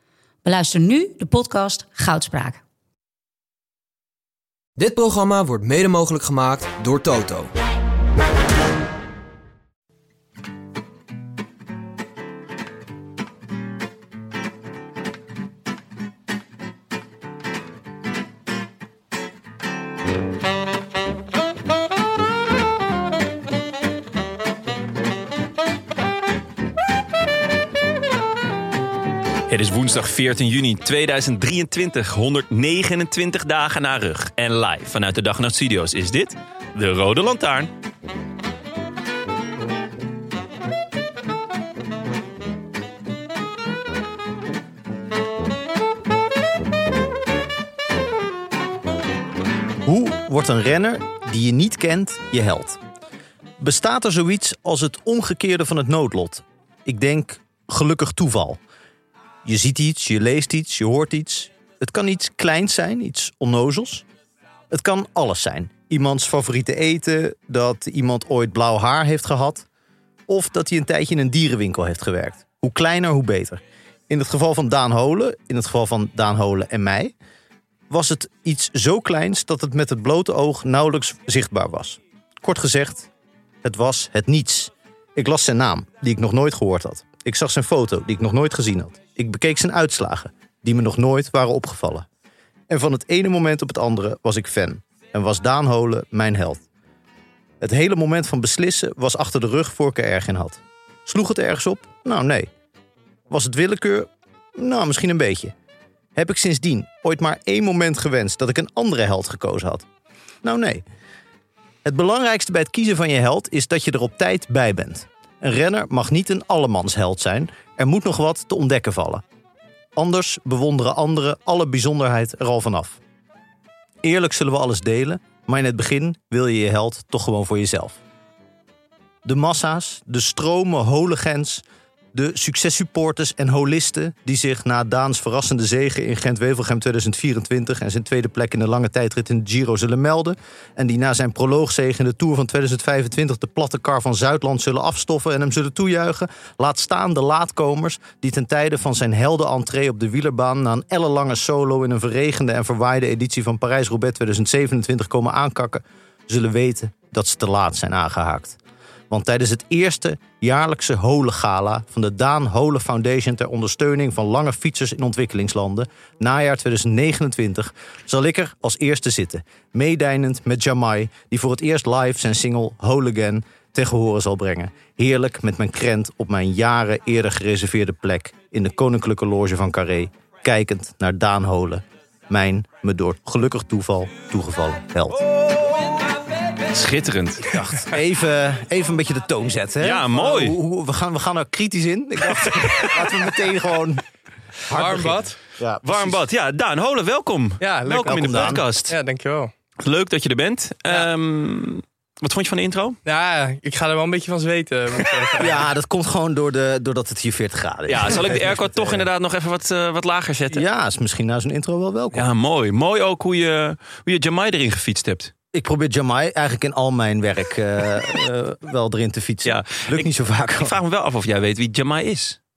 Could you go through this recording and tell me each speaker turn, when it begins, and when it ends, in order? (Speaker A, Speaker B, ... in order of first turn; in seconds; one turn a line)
Speaker A: 0.4-2.6
Speaker B: 4.8-7.5
Speaker C: 29.5-37.7
Speaker D: 49.8-52.8
Speaker D: 53.6-58.6
Speaker D: 59.4-64.0
Speaker D: 64.7-69.7
Speaker D: 70.3-77.1
Speaker D: 77.9-83.1
Speaker D: 83.6-92.0
Speaker D: 92.7-96.6
Speaker D: 97.6-102.5
Speaker D: 103.3-105.5
Speaker D: 106.2-109.8
Speaker D: 110.4-110.8
Speaker D: 111.8-119.2
Speaker D: 120.0-123.0
Speaker D: 124.0-128.0
Speaker D: 129.2-158.6
Speaker D: 159.1-185.2
Speaker C: 186.7-187.6
Speaker D: 187.5-194.0
Speaker C: 189.8-190.6
Speaker D: 194.7-196.2
Speaker E: 194.7-195.3
Speaker C: 195.8-198.9
Speaker E: 197.6-199.5
Speaker D: 197.9-198.6
Speaker C: 199.8-203.0
Speaker E: 203.0-205.6
Speaker D: 205.4-209.0
Speaker C: 207.9-210.6
Speaker D: 210.5-212.3
Speaker C: 212.1-215.3
Speaker D: 215.5-220.7
Speaker C: 219.4-222.4